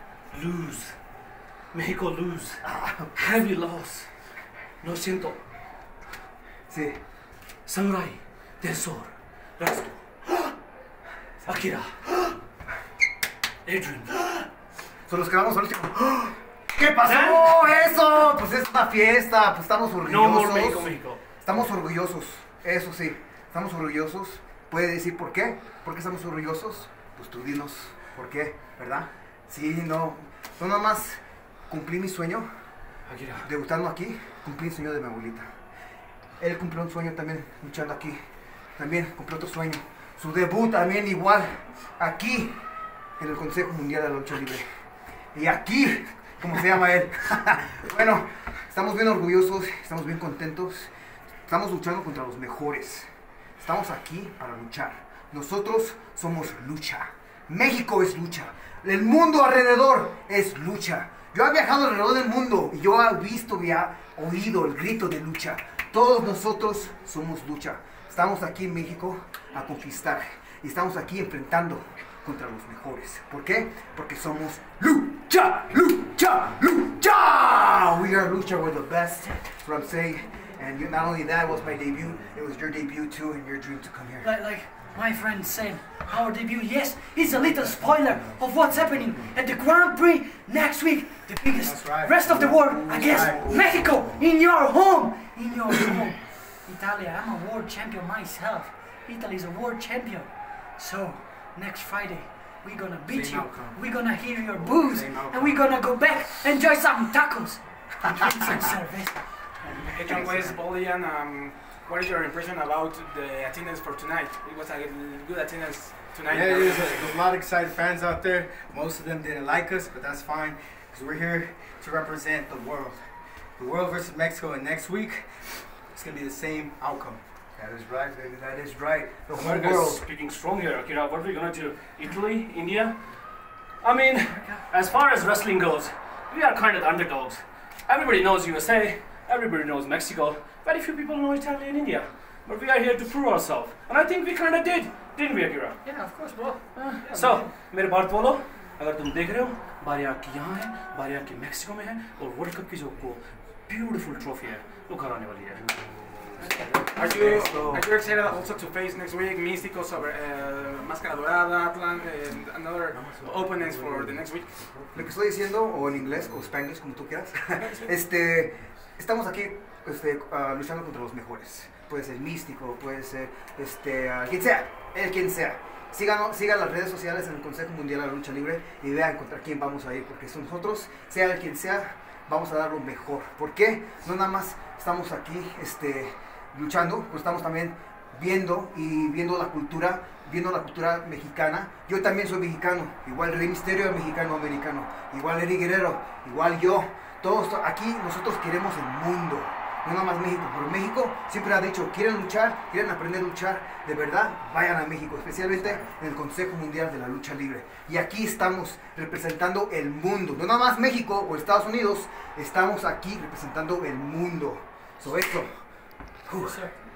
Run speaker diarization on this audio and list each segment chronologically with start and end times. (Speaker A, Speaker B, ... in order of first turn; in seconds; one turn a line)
Speaker A: 0.3-1.0
Speaker A: 1.7-2.6
Speaker B: 2.6-3.1
Speaker A: 3.1-4.1
Speaker A: 4.8-5.4
Speaker B: 6.7-7.0
Speaker A: 7.7-10.5
Speaker A: 11.4-12.3
Speaker A: 13.6-14.5
Speaker B: 15.1-32.5
Speaker A: 17.0-17.8
Speaker A: 20.0-21.2
Speaker A: 33.1-33.5
Speaker B: 33.4-35.5
Speaker B: 36.4-38.2
Speaker B: 38.8-42.6
Speaker B: 43.2-44.7
Speaker B: 45.3-50.9
Speaker B: 51.5-53.1
Speaker B: 53.6-84.3
Speaker C: 84.2-109.7
Speaker D: 91.5-94.2
Speaker D: 103.1-105.6
Speaker D: 109.6-110.6
Speaker E: 109.8-117.1
Speaker D: 116.3-127.2
Speaker B: 127.6-130.0
Speaker A: 129.3-133.0
Speaker A: 133.8-145.8
Speaker C: 134.2-134.7
Speaker C: 145.8-147.5
Speaker A: 146.7-155.7
Speaker E: 156.9-164.8
Speaker B: 157.1-157.7
Speaker B: 164.9-215.6
Speaker E: 167.6-167.9
Speaker B: 216.3-216.6
Speaker C: 216.3-216.8